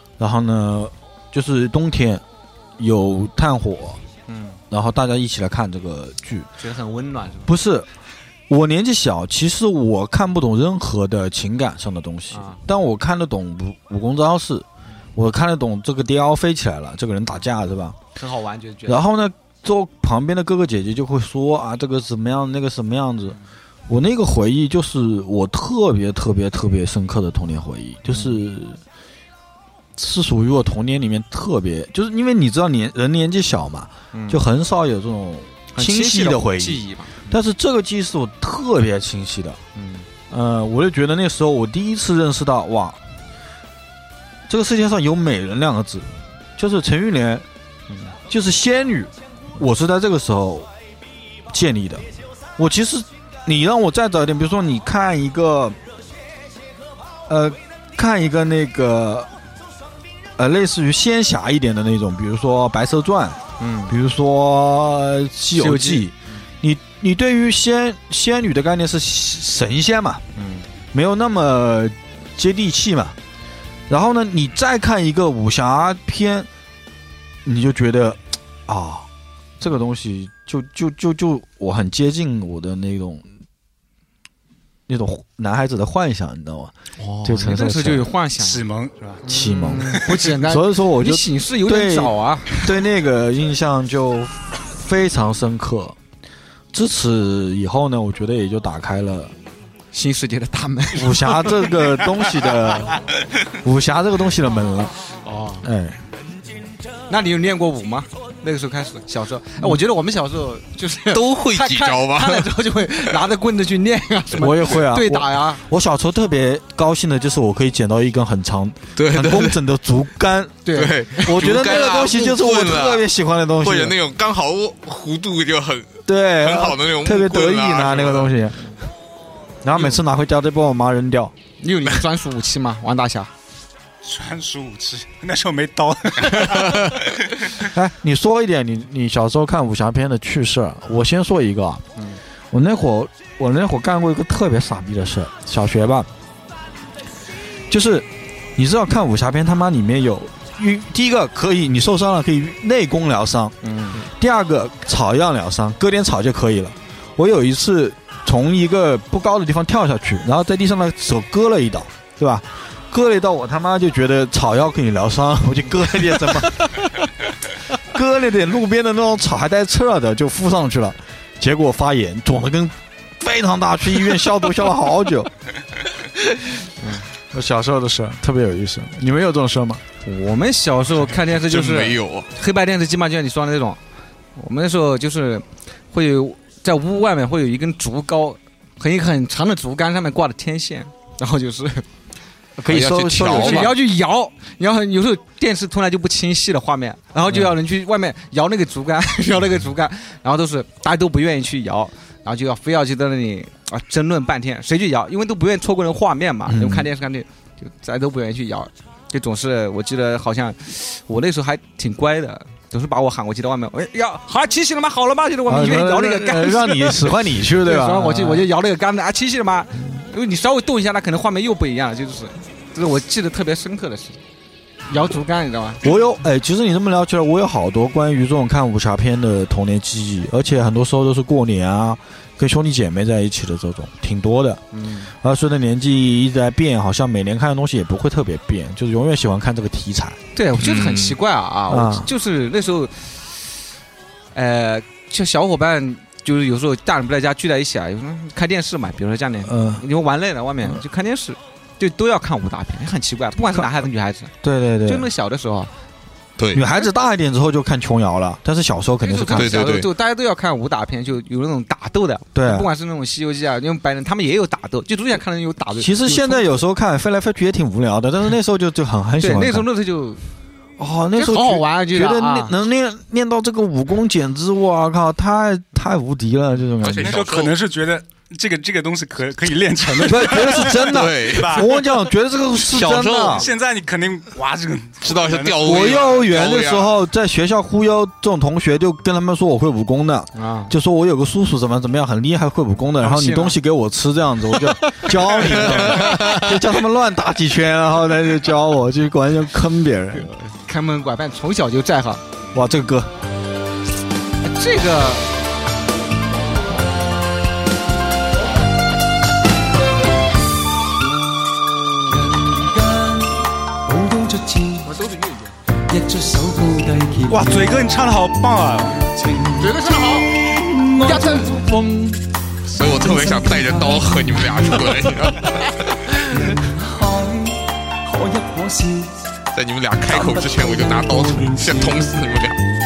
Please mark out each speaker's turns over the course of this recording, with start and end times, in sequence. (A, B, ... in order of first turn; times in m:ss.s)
0:00.2-0:02.2 A
0:02.8-0:04.0 A
0:04.3-0:04.6 B
0:04.7-0:06.5 A
0:06.6-0:07.5 B
0:07.5-0:07.9 A
0:08.5-0:18.0 A
0:12.3-0:12.6 B
0:18.2-0:19.0 B
0:18.9-0:23.4 A
0:23.9-0:28.8 A
0:28.1-0:28.4 B
0:30.0-0:39.6 A
0:34.1-0:34.4 B
0:35.7-0:37.4 B
0:39.7-0:40.1 B
0:40.3-0:43.0 A
0:44.5-0:47.4 A
0:47.9-0:48.1 B
0:48.3-0:50.7 A
0:51.5-0:52.0 A
0:52.6-0:55.8 A
0:57.3-0:59.3 A
1:00.4-1:10.2 A
1:03.6-1:03.9 B
1:05.5-1:06.4 B
1:10.4-1:10.6 B
1:10.9-1:13.2 A
1:13.9-1:16.5 A
1:17.4-1:19.1 A
1:19.6-1:23.2 A
1:24.9-1:28.1 A
1:27.0-1:28.6 B
1:28.4-1:29.2 C
1:29.2-1:32.6 B
1:29.2-1:36.0 A
1:29.8-1:30.3 C
1:36.7-1:39.3 A
1:39.9-1:41.7 B
1:40.9-1:44.9 A
1:45.2-1:45.6 B
1:45.6-1:46.0 A
1:47.1-1:55.6 B
1:51.1-1:53.2 D
1:54.3-2:04.0 A
1:59.0-1:59.6 D
2:00.6-2:02.2 B
2:00.7-2:03.1 D
2:03.6-2:08.3 D
2:06.1-2:08.6 A
2:09.6-2:11.3 A
2:11.6-2:13.3 B
2:14.0-2:17.5 C
2:17.6-2:21.8 A
2:22.5-2:26.1 A
2:27.7-2:47.1 A
2:33.6-2:34.0 B
2:47.7-2:55.3 A
2:56.1-2:56.6 A
2:56.8-2:57.0 B
2:57.3-2:59.8 A
3:00.0-3:03.8 B
3:01.3-3:02.3 D
3:04.4-3:11.8 B
3:12.6-3:13.8 A
3:12.7-3:13.7 D
3:13.2-3:44.2 B
3:26.4-3:26.9 A
3:35.4-3:38.5 A
3:44.9-3:45.8 B
3:45.8-3:54.6 A
3:54.7-3:55.1 B
3:55.2-4:00.2 A
4:00.3-4:03.4 B
4:00.6-4:01.2 D
4:01.7-4:02.1 A
4:04.3-4:14.3 B
4:09.4-4:09.8 A
4:14.4-4:15.1 A
4:14.8-4:15.7 B
4:16.4-4:16.7 D
4:16.5-4:19.6 A
4:19.0-4:26.6 B
4:19.3-4:19.9 D
4:22.3-4:22.7 A
4:25.8-4:29.7 A
4:29.2-4:30.2 B
4:30.8-4:37.2 A
4:31.1-4:32.5 B
4:36.8-4:37.6 D
4:37.0-4:41.8 C
4:40.0-4:43.5 A
4:40.2-4:41.8 D
4:42.6-4:43.5 D
4:43.2-4:46.2 C
4:45.0-4:46.9 D
4:45.6-5:00.3 A
4:50.3-4:50.7 B
4:53.0-4:53.6 B
4:54.8-4:56.1 B
4:55.7-4:56.4 D
5:00.3-5:02.2 B
5:02.5-5:03.1 A
5:04.4-5:05.3 B
5:12.1-5:15.0 E
5:14.8-5:15.5 B
5:15.9-5:17.8 E
5:17.3-5:19.0 C
5:19.0-5:25.5 E
5:19.6-5:20.3 B
5:21.0-5:21.6 B
5:22.7-5:26.4 D
5:26.3-5:29.1 E
5:29.5-5:32.6 D
5:30.1-5:32.4 E